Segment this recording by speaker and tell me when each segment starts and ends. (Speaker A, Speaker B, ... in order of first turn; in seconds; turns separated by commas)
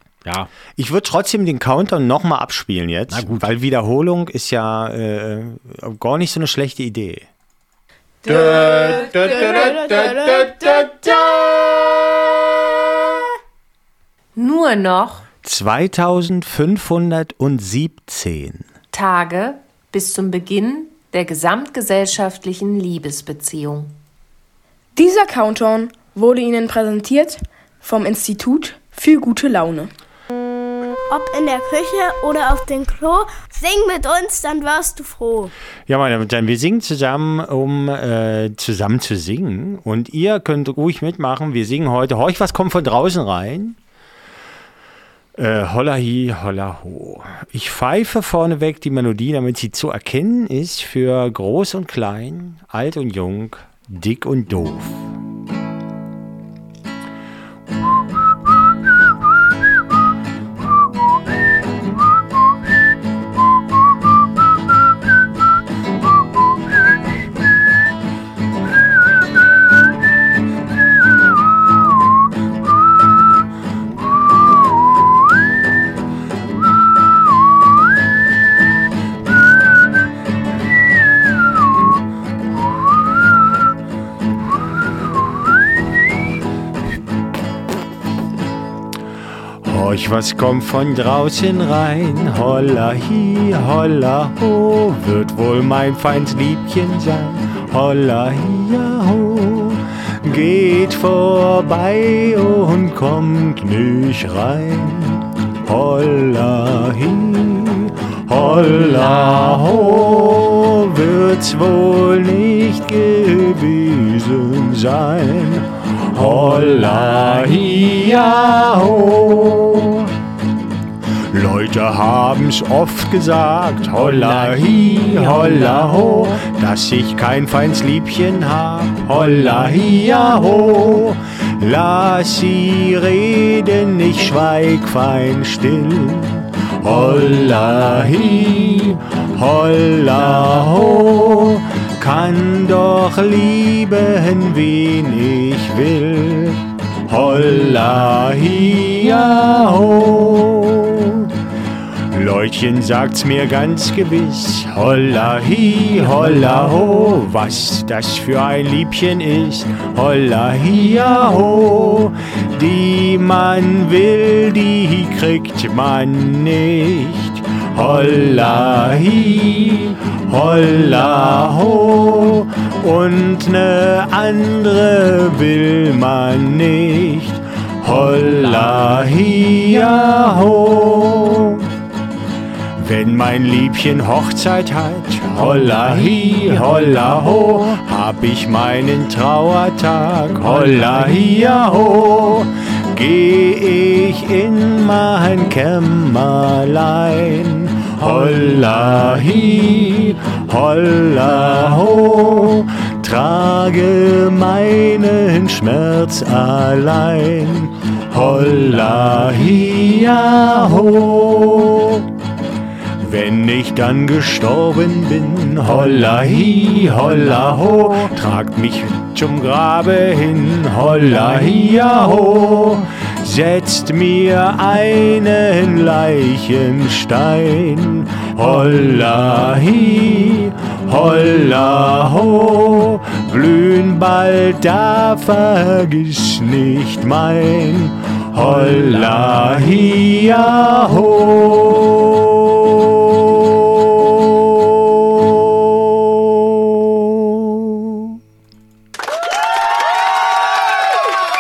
Speaker A: 0.2-0.5, Speaker B: 0.8-7.3, Speaker A: 3.1-3.5, Speaker C: 8.2-13.2, Speaker C: 14.3-15.3, Speaker B: 15.4-18.7, Speaker C: 18.9-24.0, Speaker D: 25.0-29.9, Speaker E: 31.1-35.5, Speaker B: 35.9-43.8, Speaker B: 45.4-55.1, Speaker B: 89.6-120.1, Speaker A: 108.9-109.6, Speaker A: 116.1-117.8, Speaker B: 121.3-151.3, Speaker A: 124.0-126.3, Speaker A: 129.3-129.8, Speaker B: 152.1-181.7, Speaker A: 178.2-179.0, Speaker B: 182.8-212.1, Speaker A: 185.4-187.5, Speaker A: 190.4-191.3, Speaker B: 213.0-247.8, Speaker A: 239.0-239.4